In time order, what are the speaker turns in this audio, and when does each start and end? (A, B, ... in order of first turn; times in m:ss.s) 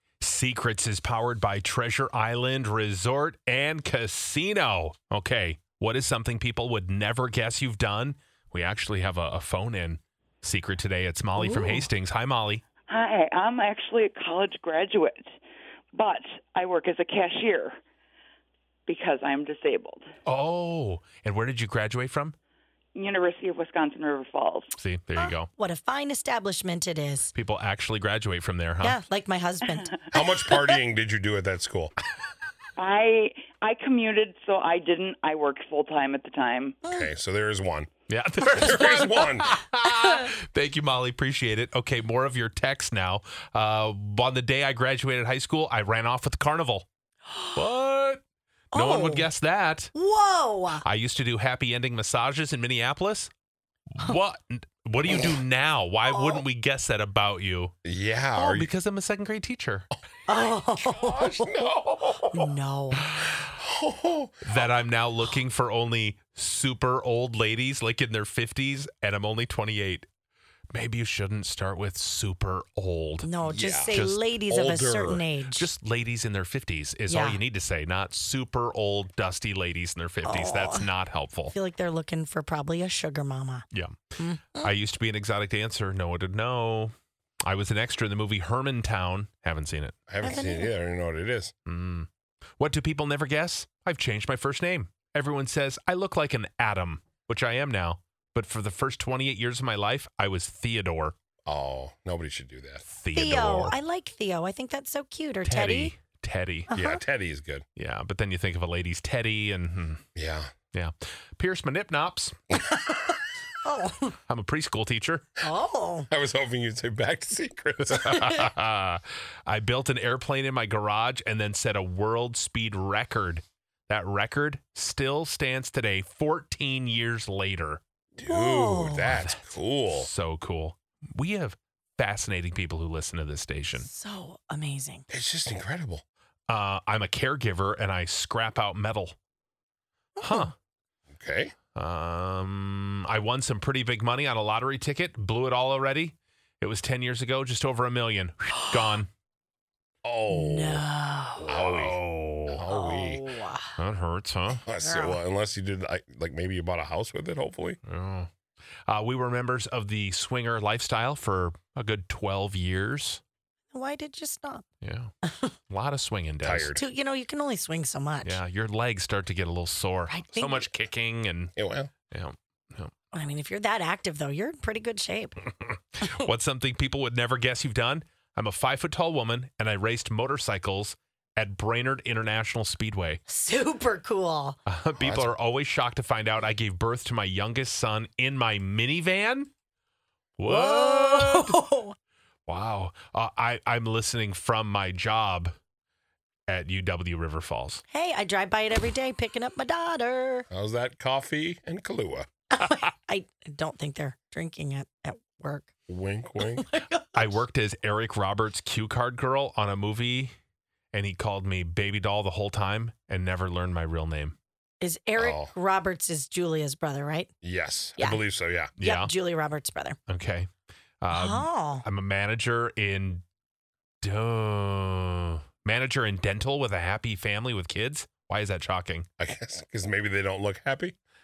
0:00.2-0:12.6 A
0:11.4-0:11.8 B
0:12.9-0:15.3 C
0:15.9-0:17.7 C
0:18.9-0:20.0 C
0:20.2-0:22.3 A
0:22.9-0:24.8 C
0:24.8-0:25.5 A
0:25.2-0:27.3 B
0:27.3-0:29.0 A
0:28.8-0:29.9 B
0:29.8-0:30.1 C
0:30.1-0:31.9 D
0:32.8-0:36.8 C
0:36.9-0:37.9 D
0:38.1-0:46.8 A
0:38.6-0:39.5 D
0:47.5-0:48.2 A
0:48.7-0:49.3 B
0:48.7-0:49.9 A
0:49.9-0:50.8 B
0:50.8-0:53.3 A
0:53.9-0:57.7 A
0:56.1-0:56.4 B
0:57.8-0:58.7 D
0:58.4-0:59.8 A
1:00.3-1:01.5 B
1:00.8-1:02.6 D
1:02.3-1:03.1 B
1:03.6-1:04.6 D
1:04.4-1:10.1 A
1:10.7-1:13.3 A
1:13.2-1:15.7 B
1:13.4-1:15.2 D
1:13.9-1:14.3 A
1:15.5-1:21.5 A
1:17.1-1:17.4 B
1:20.2-1:20.9 B
1:21.5-1:23.6 B
1:23.7-1:24.0 A
1:24.2-1:24.7 B
1:24.6-1:26.9 A
1:27.4-1:30.0 A
1:30.1-1:31.5 D
1:30.2-1:30.7 B
1:31.7-1:32.1 A
1:32.6-1:41.2 A
1:41.4-1:42.8 D
1:42.9-1:43.8 A
1:43.1-1:45.9 B
1:45.4-1:46.7 A
1:46.7-1:47.0 B
1:46.7-1:47.6 D
1:47.8-1:50.0 A
1:50.2-1:50.5 D
1:50.7-1:52.4 A
1:53.6-1:54.2 B
1:54.3-1:55.4 A
1:55.4-1:56.1 B
1:56.1-1:58.4 D
1:57.9-2:07.8 A
2:08.2-2:10.1 D
2:08.2-2:09.1 B
2:09.1-2:13.9 A
2:13.7-2:15.0 B
2:15.1-2:16.0 D
2:16.5-2:19.2 A
2:20.2-2:20.5 B
2:20.2-2:20.5 A
2:21.1-2:21.5 D
2:21.7-2:29.1 A
2:30.0-2:30.8 D
2:30.3-2:31.4 B
2:31.4-2:33.3 D
2:31.5-2:32.6 A
2:32.6-2:33.7 B
2:33.8-2:34.6 A
2:34.6-2:37.8 D
2:34.8-2:35.2 B
2:37.8-2:38.3 A
2:38.9-2:43.2 A
2:43.7-2:44.6 B
2:44.8-2:45.1 A
2:45.2-2:45.5 B
2:45.7-2:46.7 A
2:46.4-2:46.8 D
2:46.7-2:48.4 B
2:48.2-2:52.9 A
2:50.1-2:50.7 B
2:51.6-2:51.9 D
2:53.1-2:55.4 B
2:55.9-3:03.2 A
3:03.3-3:04.6 B
3:04.6-3:09.5 A
3:05.0-3:05.3 D
3:10.4-3:11.6 A
3:10.4-3:11.9 B
3:12.5-3:15.5 A
3:16.5-3:17.8 A
3:17.9-3:20.5 B
3:20.5-3:22.3 D
3:22.5-3:25.7 B
3:25.9-3:26.7 D
3:26.7-3:27.4 B
3:27.1-3:30.3 A
3:30.9-3:34.4 A
3:34.8-3:37.3 B
3:35.2-3:35.5 D
3:37.4-3:38.7 D
3:38.8-3:39.1 A
3:38.8-3:40.0 B
3:40.1-3:40.5 A
3:41.0-3:43.2 A
3:41.1-3:41.8 B
3:44.0-3:49.1 A
3:49.2-3:50.9 D